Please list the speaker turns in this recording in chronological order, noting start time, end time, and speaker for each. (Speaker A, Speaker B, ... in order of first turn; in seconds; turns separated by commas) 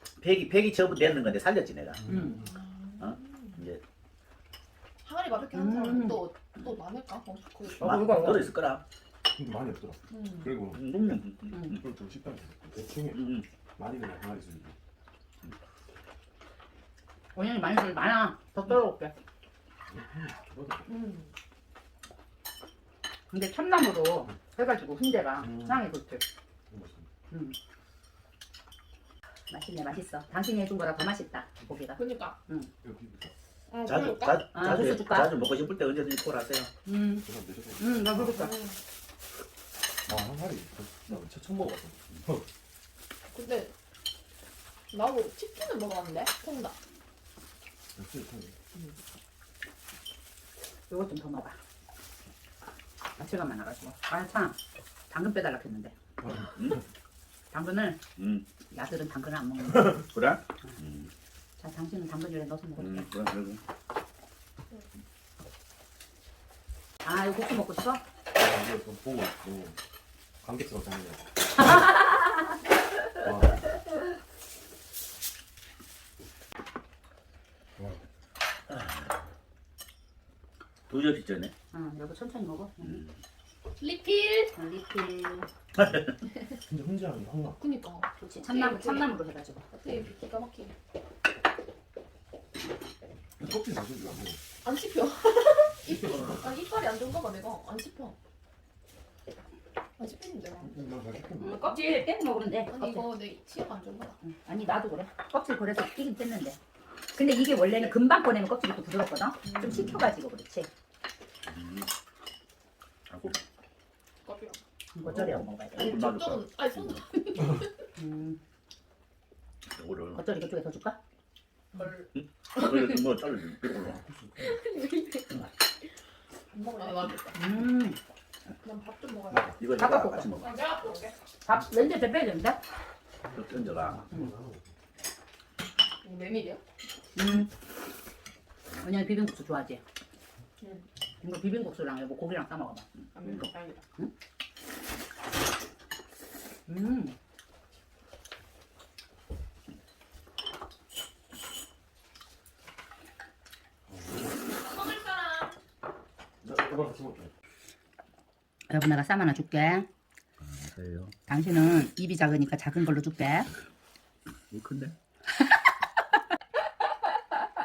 Speaker A: 0.2-2.0, Speaker B: 2.0-2.5, Speaker C: 2.1-2.4, Speaker D: 2.3-3.5, Speaker A: 3.0-3.8, Speaker D: 5.0-8.2, Speaker C: 5.5-6.2, Speaker A: 7.8-8.8, Speaker C: 7.8-8.5, Speaker B: 9.3-10.8, Speaker D: 10.1-10.5, Speaker A: 10.7-11.8, Speaker B: 11.7-13.2, Speaker A: 13.1-13.4, Speaker B: 13.8-14.7, Speaker C: 17.3-19.1, Speaker B: 19.9-21.0, Speaker D: 20.9-21.3, Speaker C: 23.3-26.2, Speaker B: 25.4-25.8, Speaker B: 26.7-27.1, Speaker C: 27.3-27.6, Speaker C: 29.5-32.7, Speaker D: 31.9-32.4, Speaker B: 32.8-33.3, Speaker D: 33.7-34.5, Speaker A: 33.9-36.7, Speaker C: 34.5-35.3, Speaker C: 36.8-38.6, Speaker B: 37.2-38.5, Speaker D: 38.3-38.8, Speaker B: 40.1-42.4, Speaker D: 43.3-43.7, Speaker D: 44.9-46.8, Speaker B: 47.9-48.5, Speaker D: 48.7-49.0, Speaker C: 50.9-51.6, Speaker C: 53.2-54.6, Speaker C: 55.1-55.9, Speaker B: 56.2-56.5, Speaker A: 56.5-56.8, Speaker C: 57.5-58.0, Speaker A: 58.2-58.4, Speaker C: 58.7-60.0, Speaker A: 60.0-61.1, Speaker C: 61.6-63.1, Speaker A: 62.8-63.6, Speaker C: 67.0-68.0, Speaker B: 68.3-69.8, Speaker B: 70.4-71.7, Speaker C: 71.7-72.2, Speaker B: 73.2-73.7, Speaker A: 78.7-79.1, Speaker A: 80.9-81.5, Speaker C: 81.7-83.0, Speaker A: 82.8-83.1, Speaker D: 83.8-84.5, Speaker C: 84.5-85.5, Speaker A: 85.8-86.0, Speaker B: 86.6-87.6, Speaker D: 87.6-89.1, Speaker C: 88.3-89.6, Speaker D: 89.7-90.7, Speaker B: 93.4-94.4, Speaker D: 94.6-98.1, Speaker B: 95.8-96.6, Speaker D: 100.0-100.8, Speaker B: 100.6-101.8, Speaker C: 101.4-103.1, Speaker D: 102.7-104.2, Speaker C: 104.2-106.6, Speaker C: 107.1-110.7, Speaker D: 107.6-108.0, Speaker D: 109.4-109.9, Speaker A: 111.5-111.9, Speaker A: 113.1-113.4, Speaker D: 114.2-114.6, Speaker C: 114.9-116.0, Speaker A: 115.1-116.6, Speaker D: 115.7-117.8, Speaker C: 118.0-118.4, Speaker A: 119.7-120.2, Speaker C: 120.1-121.0, Speaker D: 121.7-122.1, Speaker A: 122.1-124.0, Speaker B: 124.2-124.5, Speaker D: 124.4-125.5, Speaker D: 126.5-127.4, Speaker C: 127.3-128.0, Speaker D: 128.6-129.6, Speaker A: 129.5-130.5, Speaker C: 129.8-130.3, Speaker D: 130.4-131.2, Speaker C: 131.4-132.6, Speaker A: 133.3-134.1, Speaker B: 134.1-134.6, Speaker D: 136.0-136.6, Speaker C: 137.2-137.5, Speaker C: 138.8-139.8, Speaker C: 141.2-142.9, Speaker D: 143.1-143.8, Speaker C: 146.7-147.2, Speaker B: 153.9-154.4, Speaker D: 154.5-155.5, Speaker B: 156.4-157.3, Speaker C: 158.7-159.9, Speaker A: 160.4-161.1, Speaker C: 161.3-163.5, Speaker A: 164.5-164.9